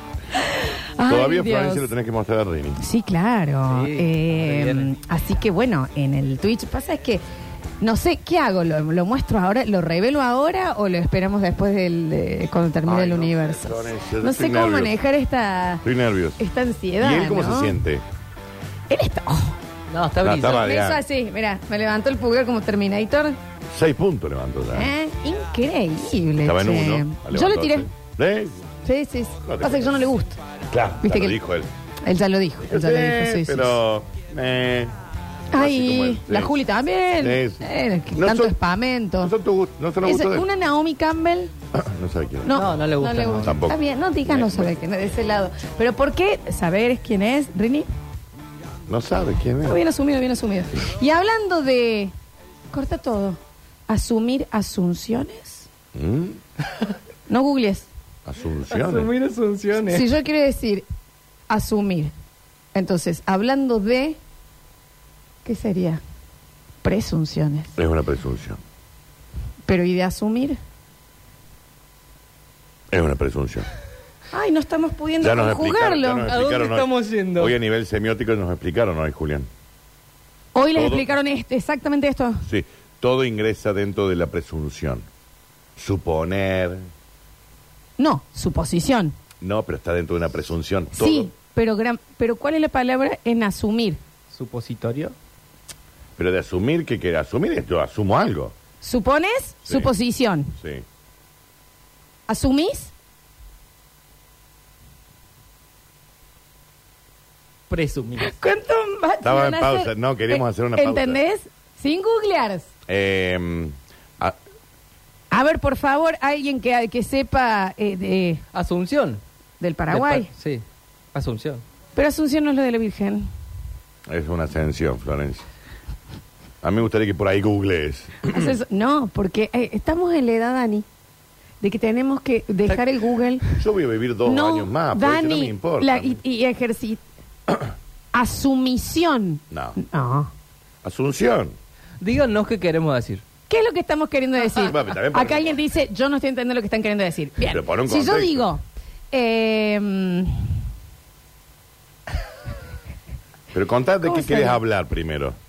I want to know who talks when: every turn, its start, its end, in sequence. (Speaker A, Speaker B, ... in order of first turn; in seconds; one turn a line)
Speaker A: 0.4-1.9
Speaker B: 1.0-2.8
Speaker A: 2.8-7.2
Speaker C: 3.7-4.9
Speaker A: 7.8-15.8
Speaker B: 12.8-14.9
Speaker B: 15.8-16.4
Speaker A: 16.4-17.8
Speaker B: 17.0-18.0
Speaker A: 18.9-19.6
Speaker C: 19.9-20.6
Speaker B: 20.2-21.0
Speaker A: 20.6-23.4
Speaker B: 23.7-24.9
Speaker A: 24.7-27.9
Speaker B: 26.4-28.6
Speaker A: 28.8-30.4
Speaker B: 29.4-29.9
Speaker B: 30.7-31.7
Speaker A: 31.0-31.4
Speaker A: 32.0-33.8
Speaker B: 32.6-34.9
Speaker A: 35.5-39.3
Speaker B: 35.5-36.6
Speaker B: 37.2-38.6
Speaker B: 39.2-40.5
Speaker A: 40.0-41.5
Speaker B: 41.7-42.5
Speaker A: 42.4-47.9
Speaker C: 42.5-43.5
Speaker B: 43.4-44.8
Speaker B: 48.9-49.8
Speaker A: 49.6-52.1
Speaker A: 52.7-55.7
Speaker B: 55.9-56.4
Speaker A: 57.3-57.9
Speaker B: 58.2-59.1
Speaker C: 58.7-60.1
Speaker A: 59.9-60.9
Speaker A: 61.5-62.1
Speaker A: 62.7-64.2
Speaker A: 65.4-66.0
Speaker A: 66.8-67.7
Speaker B: 67.8-68.6
Speaker A: 69.7-70.6
Speaker B: 72.9-73.7
Speaker A: 74.3-76.3
Speaker B: 75.2-79.5
Speaker C: 76.3-77.5
Speaker A: 80.5-82.5
Speaker B: 80.7-81.1
Speaker B: 82.5-85.0
Speaker B: 85.8-86.9
Speaker A: 88.0-89.1
Speaker B: 89.4-91.3
Speaker A: 91.0-94.0
Speaker C: 94.3-95.1
Speaker B: 96.2-98.5
Speaker A: 98.8-100.5
Speaker B: 99.7-99.9
Speaker B: 100.6-100.8
Speaker A: 102.3-102.9
Speaker C: 107.7-108.4
Speaker A: 108.2-112.7
Speaker B: 109.2-111.2
Speaker B: 112.9-114.4
Speaker A: 115.3-118.4
Speaker C: 118.5-119.2
Speaker A: 119.6-120.3
Speaker C: 119.9-121.6
Speaker A: 122.0-123.3
Speaker B: 124.1-125.5
Speaker B: 126.6-128.5
Speaker A: 128.2-130.8
Speaker A: 131.6-133.5
Speaker B: 133.6-136.2
Speaker A: 134.2-137.0
Speaker A: 138.1-140.3
Speaker B: 139.5-139.8
Speaker B: 140.8-141.5
Speaker C: 142.0-143.2
Speaker A: 143.5-150.5
Speaker B: 144.6-145.6
Speaker B: 147.4-148.5
Speaker B: 153.5-155.3
Speaker A: 154.0-154.6